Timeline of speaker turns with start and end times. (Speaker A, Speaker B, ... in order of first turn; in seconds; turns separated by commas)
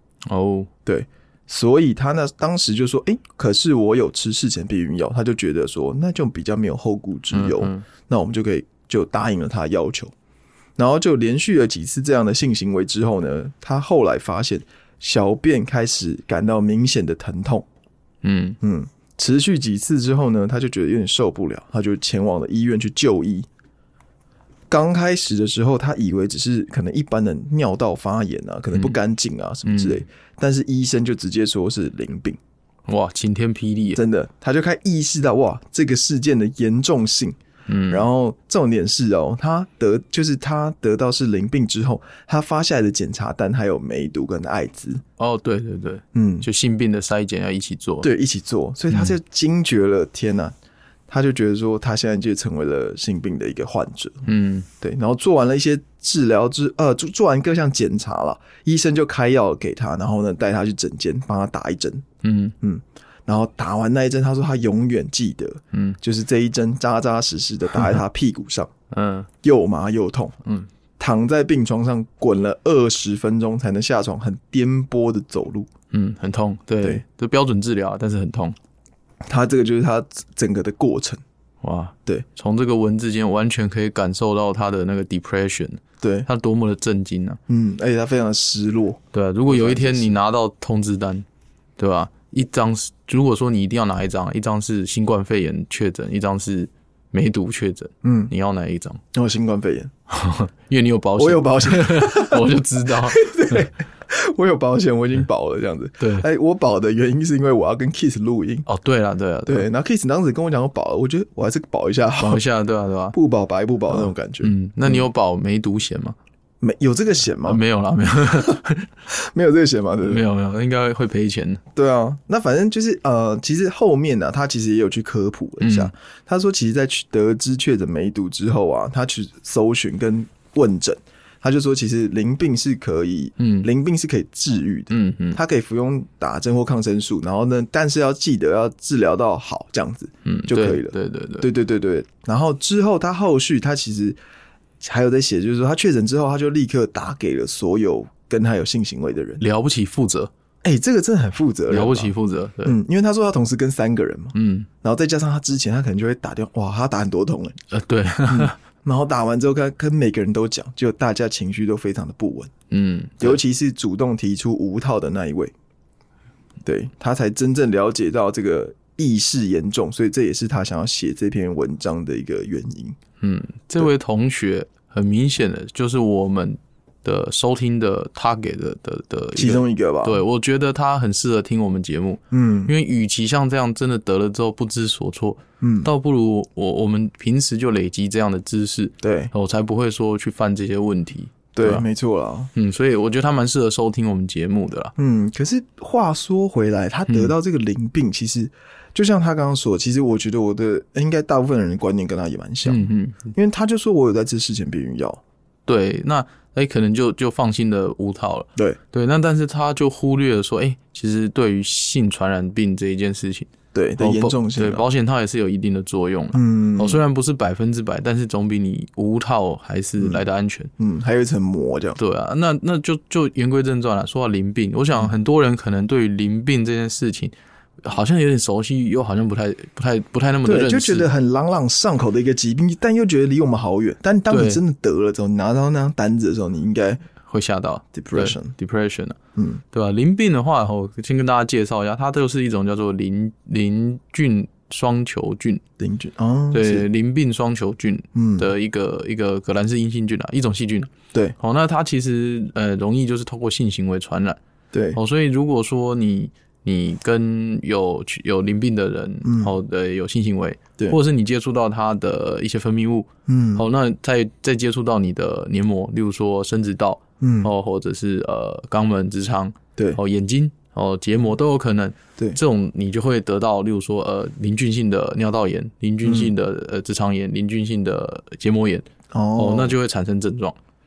Speaker A: 0.3-0.7, Speaker B: 0.8-10.1, Speaker A: 7.3-7.8, Speaker B: 10.8-17.7, Speaker A: 18.2-18.6, Speaker B: 18.6-23.5, Speaker B: 24.7-32.4, Speaker A: 29.6-30.0, Speaker A: 32.9-34.0, Speaker B: 34.0-37.4, Speaker A: 37.7-38.1, Speaker B: 37.9-45.0, Speaker A: 45.2-48.1, Speaker B: 46.1-46.5, Speaker B: 48.0-50.5, Speaker B: 51.1-54.3, Speaker A: 54.3-54.7, Speaker B: 54.8-62.0, Speaker A: 62.2-62.5, Speaker B: 62.6-68.7, Speaker A: 68.9-69.3, Speaker B: 69.4-70.4, Speaker B: 71.0-75.7, Speaker A: 75.9-78.6, Speaker B: 79.3-81.2, Speaker A: 81.6-87.4, Speaker B: 86.0-86.3, Speaker B: 87.5-90.2, Speaker A: 89.1-91.3, Speaker A: 91.8-99.0, Speaker B: 98.0-98.3, Speaker B: 99.1-99.9, Speaker A: 100.1-103.7, Speaker B: 101.2-108.7, Speaker A: 106.0-106.3, Speaker A: 108.7-109.7, Speaker B: 109.5-112.4, Speaker A: 112.2-113.2, Speaker B: 113.1-115.0, Speaker A: 113.9-116.2, Speaker B: 116.6-117.6, Speaker A: 117.5-118.9, Speaker B: 119.1-120.2, Speaker A: 120.0-121.6, Speaker B: 121.8-144.2, Speaker A: 125.6-125.9, Speaker A: 133.4-133.7, Speaker A: 134.9-135.4, Speaker A: 140.2-141.5, Speaker B: 144.8-149.4, Speaker A: 149.4-150.3, Speaker B: 150.6-157.6, Speaker A: 151.7-152.8, Speaker A: 154.3-154.7, Speaker A: 157.7-158.6, Speaker B: 158.3-162.5, Speaker A: 162.7-163.4, Speaker B: 163.2-165.5, Speaker B: 166.6-173.0, Speaker A: 173.2-191.8, Speaker B: 179.4-180.2, Speaker B: 182.3-182.7, Speaker B: 185.6-185.9, Speaker B: 189.0-189.3, Speaker B: 191.5-192.5, Speaker A: 192.5-194.9, Speaker B: 195.0-205.2, Speaker A: 197.1-197.3, Speaker A: 202.7-203.3, Speaker A: 205.7-220.7, Speaker B: 213.7-214.9, Speaker B: 216.3-217.0, Speaker B: 220.8-222.0, Speaker A: 222.0-231.1, Speaker B: 230.4-237.0, Speaker A: 234.3-234.6, Speaker A: 237.3-239.2, Speaker B: 237.9-238.5, Speaker B: 239.4-239.6, Speaker A: 239.7-245.6, Speaker B: 245.8-246.9, Speaker A: 246.5-254.4, Speaker B: 248.2-248.5, Speaker B: 254.7-255.0, Speaker A: 254.9-280.6, Speaker B: 259.2-259.5, Speaker B: 263.3-263.6, Speaker B: 267.2-267.5, Speaker B: 276.0-276.3, Speaker B: 279.1-279.8